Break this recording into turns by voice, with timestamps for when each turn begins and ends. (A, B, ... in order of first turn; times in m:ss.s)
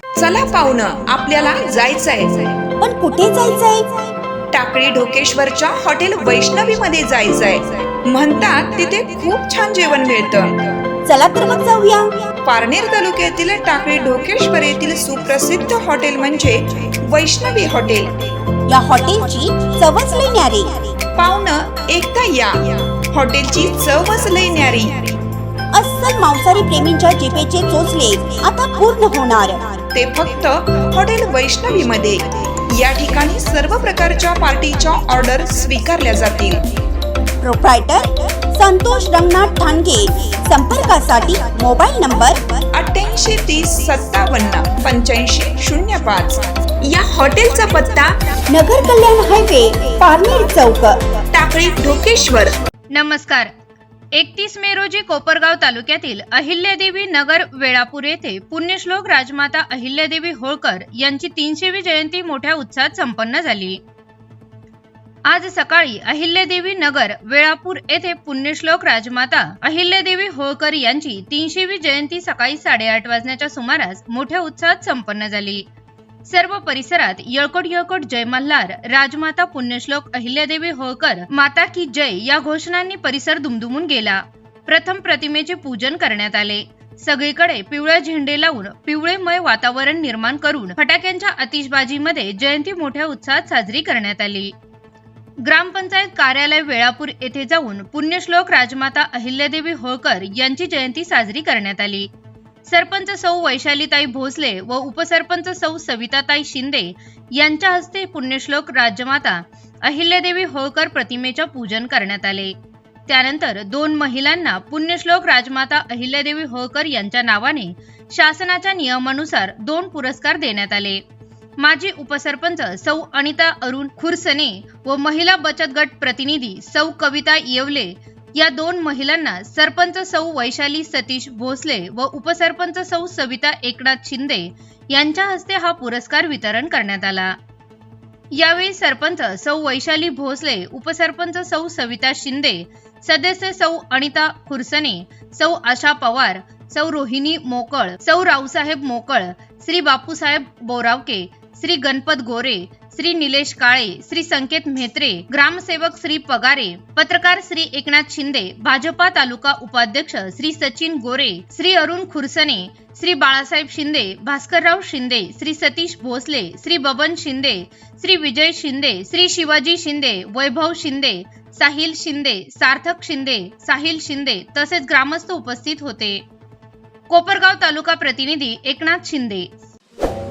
0:00.2-0:02.6 A
0:02.8-0:04.0 B
0:04.5-0:10.7 A
0:11.0-0:12.2 B
0:12.4-0:18.3 A
0:18.7-0:20.9 B
0:21.2-0:25.2 A
0:25.7-0:29.7 B
0:30.0-0:36.7 A
0:37.4-0:42.4 B
0:42.7-0:48.2 A
0:48.5-0:51.1 B
0:51.3-0:52.6 A
0:52.9-0:53.5 C
0:54.1-1:03.8 C
1:05.3-1:15.7 C
1:16.2-1:34.5 C
1:35.4-1:42.1 C
1:42.6-1:52.6 C
1:53.1-2:01.0 C
2:01.6-2:17.4 C
2:18.3-2:56.2 C
2:57.1-2:59.5 C